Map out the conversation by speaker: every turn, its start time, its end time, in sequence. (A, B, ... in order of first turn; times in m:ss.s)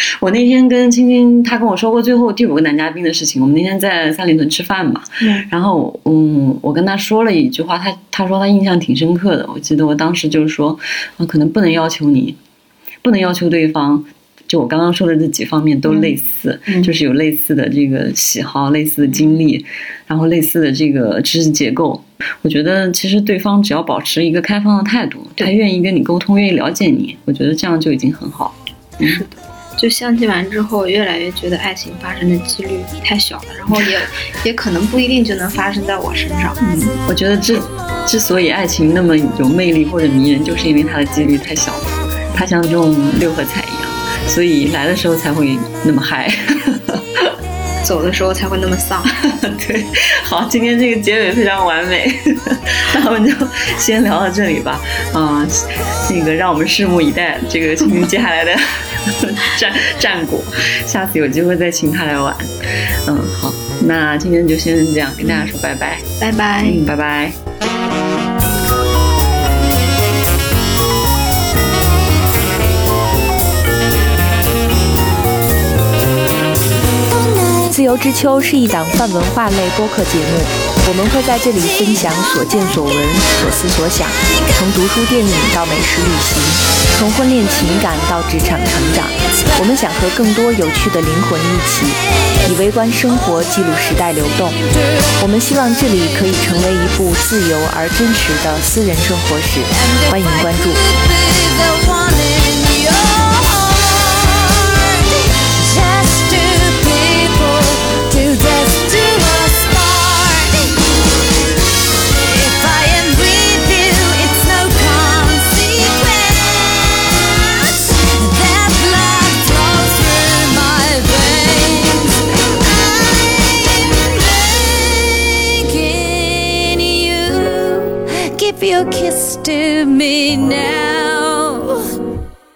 0:00.2-0:12.4 A
0:05.2-0:05.5 B
0:13.0-0:29.2 A
0:15.9-0:16.1 B
0:19.1-0:19.4 B
0:29.0-0:36.6 B
0:36.6-0:47.4 A
0:47.8-0:49.2 B
0:49.1-1:06.0 A
1:06.2-1:06.8 B
1:06.6-1:07.4 A
1:17.6-1:34.6 C
1:34.6-1:35.2 D
1:35.2-1:40.8 C
1:39.8-1:51.0 D
1:52.0-2:12.0 D